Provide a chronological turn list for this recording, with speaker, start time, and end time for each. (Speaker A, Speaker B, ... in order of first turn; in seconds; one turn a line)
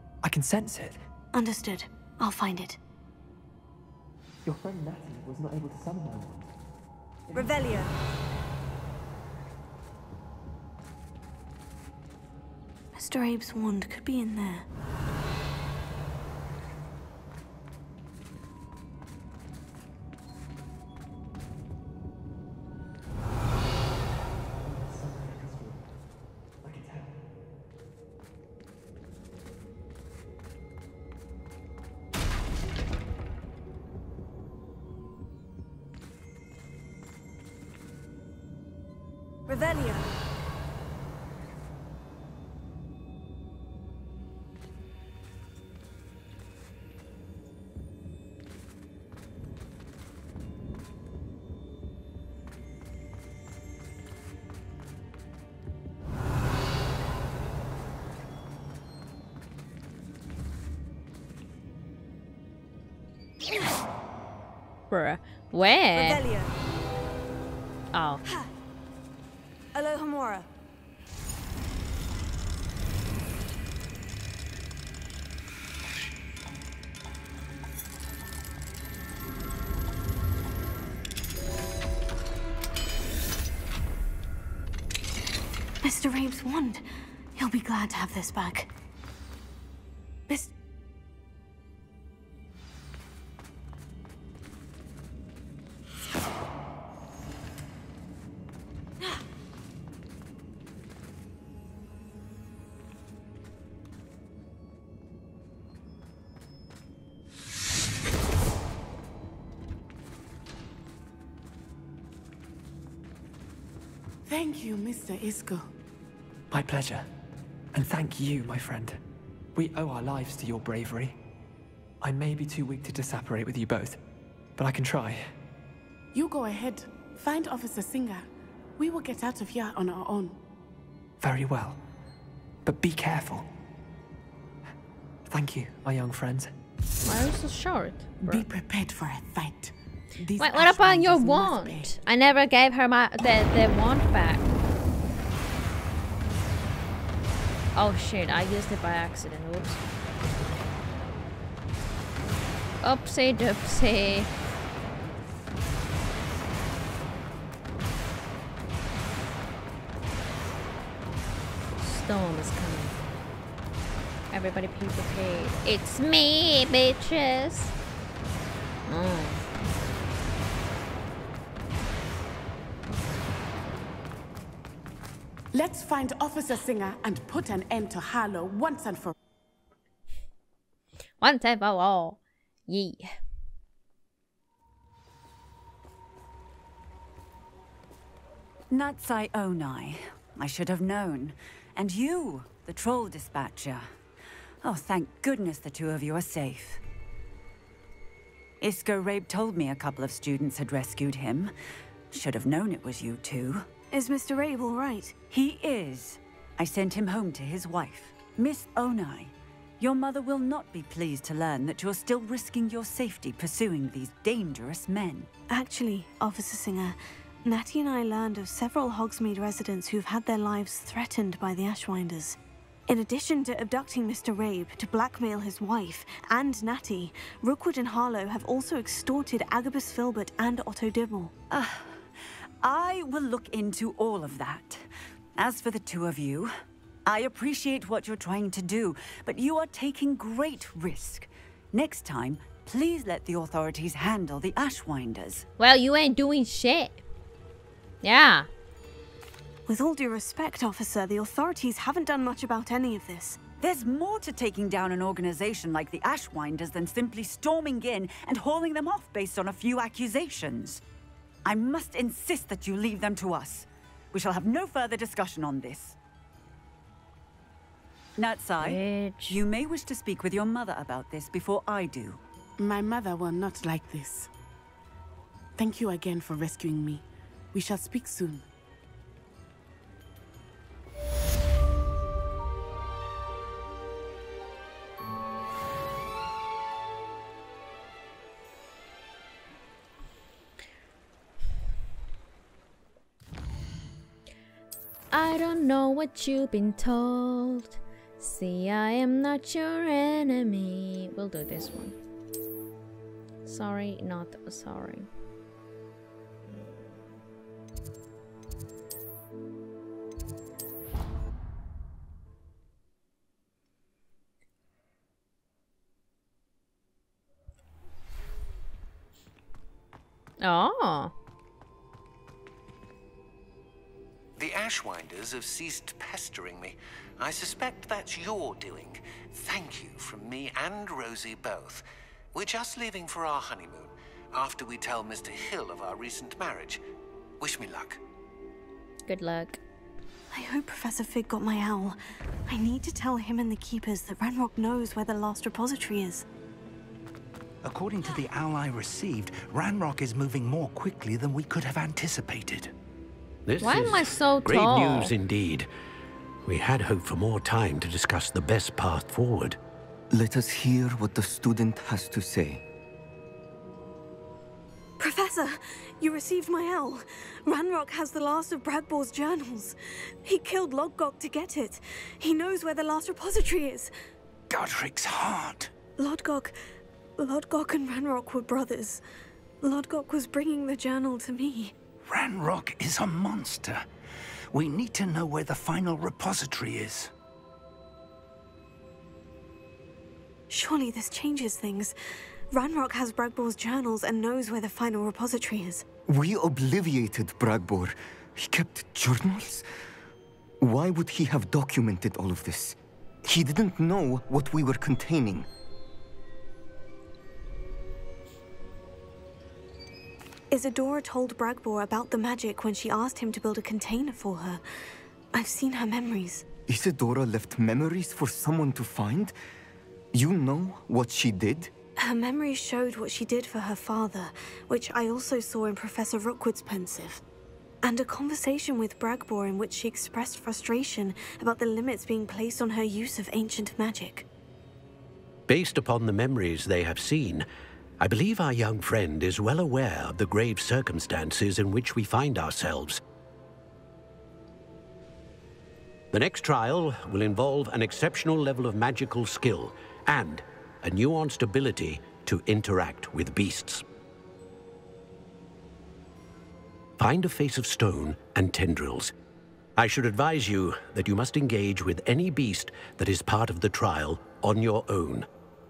Speaker A: 0.2-1.1
Speaker B: 1.3-2.8
Speaker A: 4.5-6.5
Speaker B: 7.3-7.9
Speaker B: 12.9-14.7
Speaker A: 24.6-25.9
Speaker A: 26.6-27.2
Speaker B: 39.5-40.1
Speaker C: 64.9-66.2
Speaker B: 65.9-66.6
Speaker C: 67.9-68.2
Speaker B: 69.7-70.5
Speaker B: 85.8-86.8
Speaker B: 87.4-88.7
Speaker D: 114.3-115.7
Speaker A: 116.5-117.1
Speaker A: 117.7-119.0
Speaker A: 119.5-121.2
Speaker A: 122.0-124.0
Speaker A: 124.6-125.3
Speaker D: 126.1-128.3
Speaker D: 128.8-130.4
Speaker A: 131.2-131.8
Speaker A: 132.6-133.5
Speaker A: 135.3-136.5
Speaker C: 137.1-138.4
Speaker D: 138.2-141.9
Speaker C: 140.4-144.5
Speaker C: 147.8-149.8
Speaker C: 152.8-154.3
Speaker C: 161.8-163.0
Speaker C: 164.3-167.8
Speaker C: 168.9-169.4
Speaker D: 175.6-179.1
Speaker C: 181.2-183.1
Speaker E: 188.7-193.9
Speaker E: 194.6-196.8
Speaker E: 198.6-201.5
Speaker E: 202.1-203.7
Speaker B: 203.9-205.1
Speaker E: 205.3-215.3
Speaker B: 215.5-231.3
Speaker E: 231.5-236.5
Speaker E: 237.1-245.5
Speaker C: 245.6-247.0
Speaker C: 248.0-248.5
Speaker B: 249.7-253.4
Speaker E: 253.6-260.8
Speaker E: 261.4-266.0
Speaker E: 268.2-272.2
Speaker C: 268.6-269.4
Speaker D: 272.6-274.3
Speaker D: 275.6-278.4
Speaker C: 295.1-302.0
Speaker C: 303.4-305.1
Speaker C: 320.4-321.1
Speaker F: 324.4-336.8
Speaker F: 337.4-338.0
Speaker C: 339.1-339.6
Speaker B: 340.3-346.2
Speaker G: 347.6-352.7
Speaker H: 353.5-355.7
Speaker C: 353.6-355.1
Speaker H: 356.5-359.6
Speaker I: 360.1-362.6
Speaker B: 365.0-373.9
Speaker G: 374.5-375.7
Speaker B: 376.0-376.5
Speaker B: 377.2-379.0
Speaker B: 379.6-381.8
Speaker G: 382.1-383.9
Speaker G: 384.5-387.1
Speaker B: 390.5-391.9
Speaker B: 392.5-395.9
Speaker I: 396.1-399.6
Speaker I: 400.6-405.5
Speaker B: 410.5-414.6
Speaker B: 415.3-416.5
Speaker I: 416.7-419.3
Speaker I: 420.1-421.7
Speaker B: 422.0-427.2
Speaker B: 427.8-434.3
Speaker H: 435.5-437.5
Speaker H: 438.0-443.0
Speaker H: 446.1-453.8
Speaker H: 457.0-459.1
Speaker H: 459.8-465.3